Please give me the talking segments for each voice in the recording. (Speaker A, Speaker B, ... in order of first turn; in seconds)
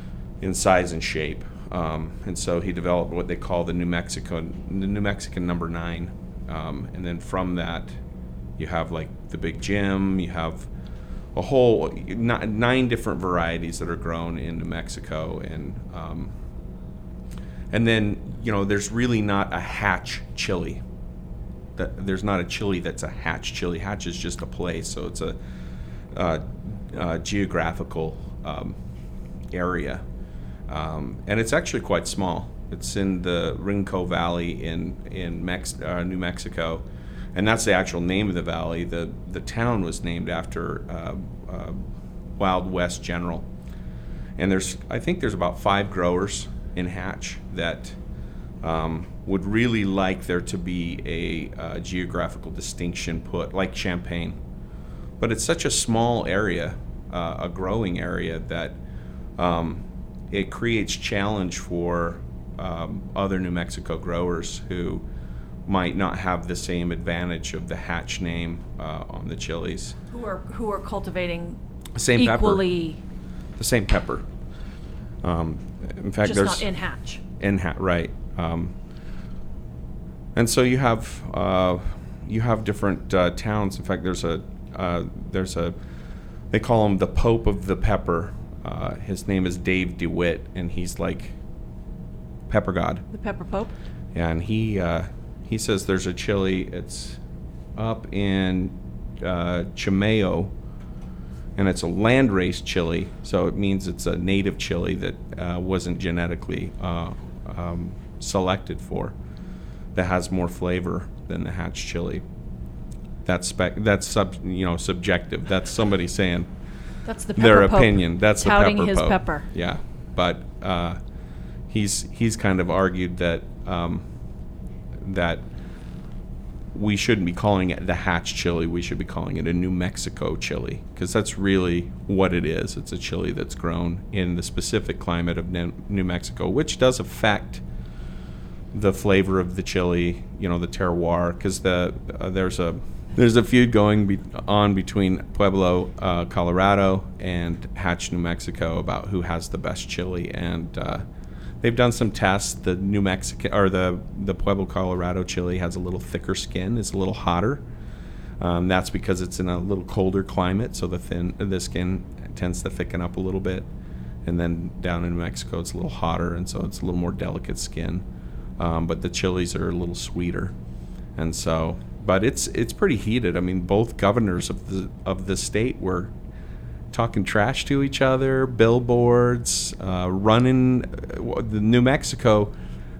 Speaker A: 0.4-7.9, 8.6-10.7, 11.3-16.3, 17.7-20.8, 21.8-25.4, 26.1-28.8, 29.5-30.0, 30.7-36.8, 37.4-41.8, 42.4-43.5, 44.4-48.0, 48.6-54.4, 55.2-58.8, 59.4-65.0, 65.7-70.0, 72.0-72.6, 73.6-74.3, 75.2-76.7, 77.4-78.7, 80.3-85.8, 86.5-91.3, 92.5-93.0, 94.1-97.2, 97.8-100.5, 101.6-109.2, 110.0-112.2, 113.2-116.5, 117.4-121.0, 121.7-124.0, 125.0-125.4, 126.7-137.6, 138.7-151.1, 151.6-157.6, 158.4-163.7, 164.2-168.0, 168.6-170.5, 171.2-176.1, 176.9-182.5
Speaker B: 70.1-71.6, 72.2-73.0, 76.2-77.2, 93.1-93.7, 117.0-119.5